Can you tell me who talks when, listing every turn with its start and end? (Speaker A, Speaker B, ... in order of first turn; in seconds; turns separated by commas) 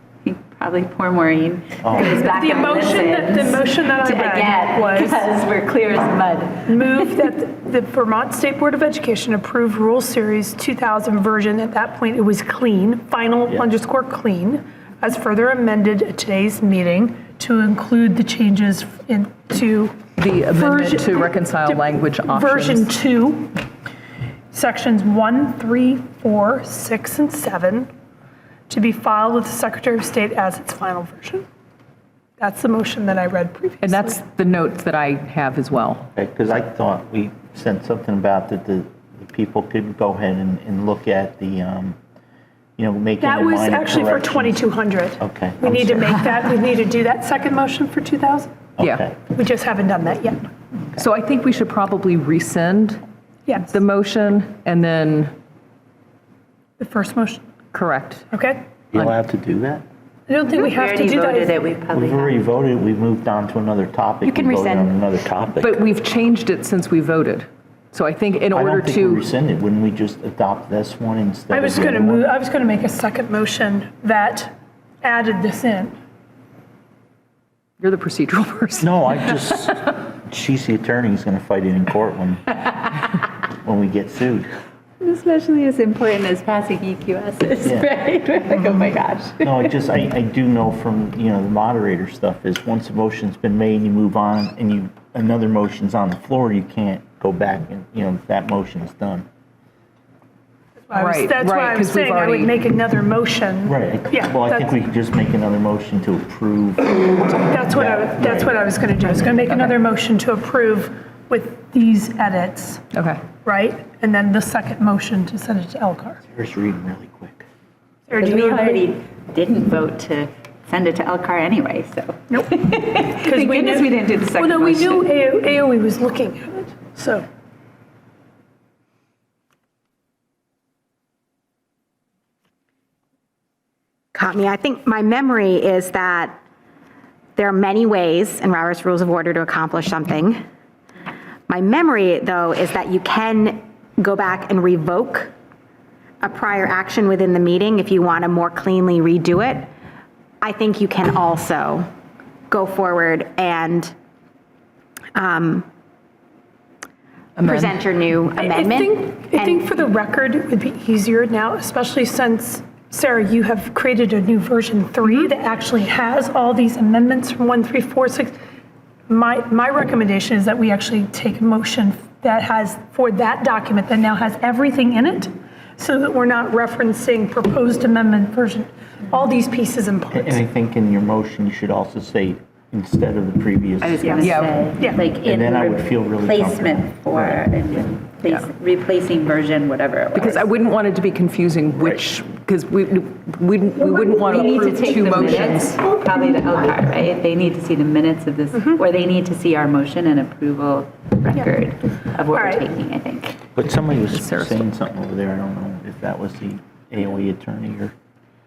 Speaker A: 0.2-7.0, Speaker B: 1.8-2.1, Speaker C: 1.9-5.3, Speaker C: 6.7-23.5, Speaker D: 20.2-22.9, Speaker C: 24.5-27.9, Speaker C: 28.7-31.4, Speaker C: 32.4-34.2, Speaker D: 33.8-36.1, Speaker B: 36.2-42.0, Speaker B: 42.8-44.7, Speaker C: 43.2-48.5, Speaker B: 45.2-46.2, Speaker B: 48.8-49.2, Speaker C: 49.3-50.4, Speaker D: 51.0-53.0, Speaker C: 53.5-53.7, Speaker D: 53.6-55.3, Speaker C: 56.8-57.4, Speaker D: 57.7-58.3, Speaker C: 58.3-58.6, Speaker B: 58.9-59.8, Speaker C: 60.3-61.6, Speaker A: 60.5-62.4, Speaker B: 61.9-65.8, Speaker E: 64.2-65.0, Speaker D: 65.6-69.2, Speaker B: 68.5-72.3, Speaker C: 71.5-76.0, Speaker D: 77.8-78.9, Speaker B: 78.8-82.4, Speaker B: 83.7-84.4, Speaker A: 85.0-89.8, Speaker B: 89.4-99.2, Speaker C: 100.9-104.8, Speaker D: 100.9-102.6, Speaker B: 103.6-108.7, Speaker C: 107.5-112.8, Speaker D: 109.5-109.8, Speaker D: 112.9-113.2, Speaker C: 113.4-116.2, Speaker B: 116.3-117.5, Speaker C: 118.1-118.9, Speaker A: 118.2-125.1, Speaker C: 122.3-127.2, Speaker E: 134.1-136.3, Speaker E: 137.4-140.4, Speaker E: 141.5-145.3, Speaker E: 146.2-149.7, Speaker E: 150.4-151.9, Speaker E: 152.5-153.9, Speaker E: 155.1-155.7, Speaker D: 157.4-157.8, Speaker E: 157.4-159.7, Speaker C: 158.4-168.3, Speaker C: 169.1-180.4, Speaker B: 180.1-184.3, Speaker A: 183.8-190.5, Speaker D: 184.2-184.5, Speaker B: 185.2-187.4, Speaker E: 185.6-186.2, Speaker D: 190.1-195.8, Speaker A: 193.9-203.4, Speaker C: 202.3-202.6, Speaker B: 203.6-207.9, Speaker D: 204.1-204.6